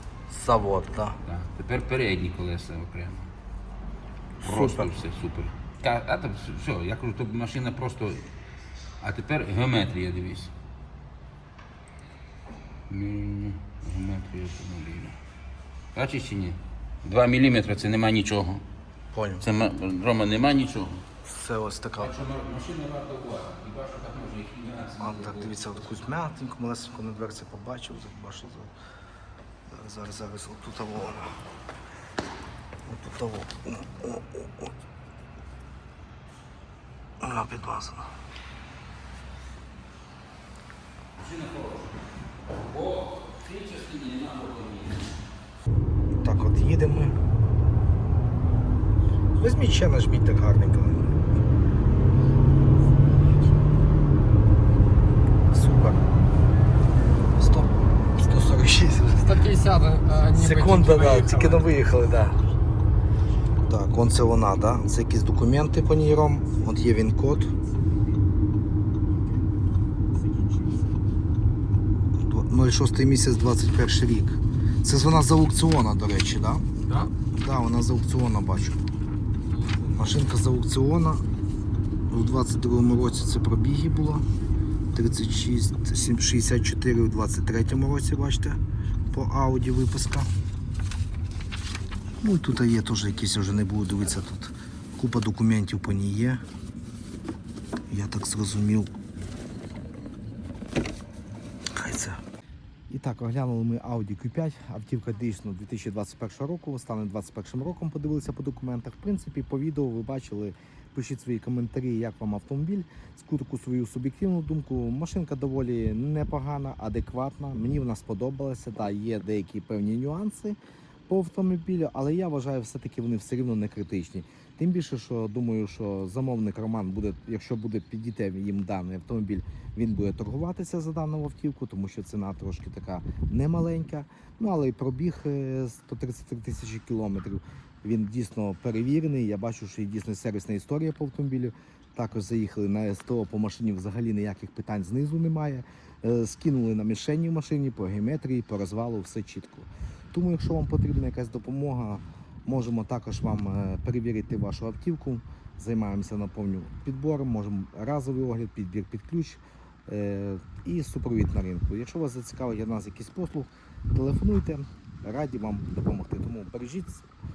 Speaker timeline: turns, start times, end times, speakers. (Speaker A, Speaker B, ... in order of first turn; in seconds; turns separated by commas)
Speaker A: 0.3-1.2, Speaker B: 1.2-3.3, Speaker B: 4.4-8.3, Speaker B: 9.0-10.5, Speaker B: 12.9-15.2, Speaker B: 15.9-18.6, Speaker A: 19.1-19.4, Speaker B: 19.4-21.0, Speaker A: 21.2-22.2, Speaker B: 22.0-26.1, Speaker A: 25.0-28.7, Speaker A: 29.7-31.3, Speaker A: 32.9-34.7, Speaker A: 37.2-38.1, Speaker B: 41.2-42.0, Speaker B: 42.7-45.1, Speaker A: 46.2-47.1, Speaker A: 49.4-51.2, Speaker A: 55.5-56.0, Speaker A: 57.4-59.5, Speaker C: 59.2-61.7, Speaker A: 60.3-62.4, Speaker A: 63.6-67.5, Speaker A: 72.2-78.8, Speaker A: 79.9-81.2, Speaker A: 82.1-84.2, Speaker A: 84.9-88.6, Speaker A: 89.1-90.3, Speaker A: 92.2-96.4, Speaker A: 97.9-98.9, Speaker A: 101.7-102.2, Speaker A: 102.9-120.6, Speaker A: 121.1-167.0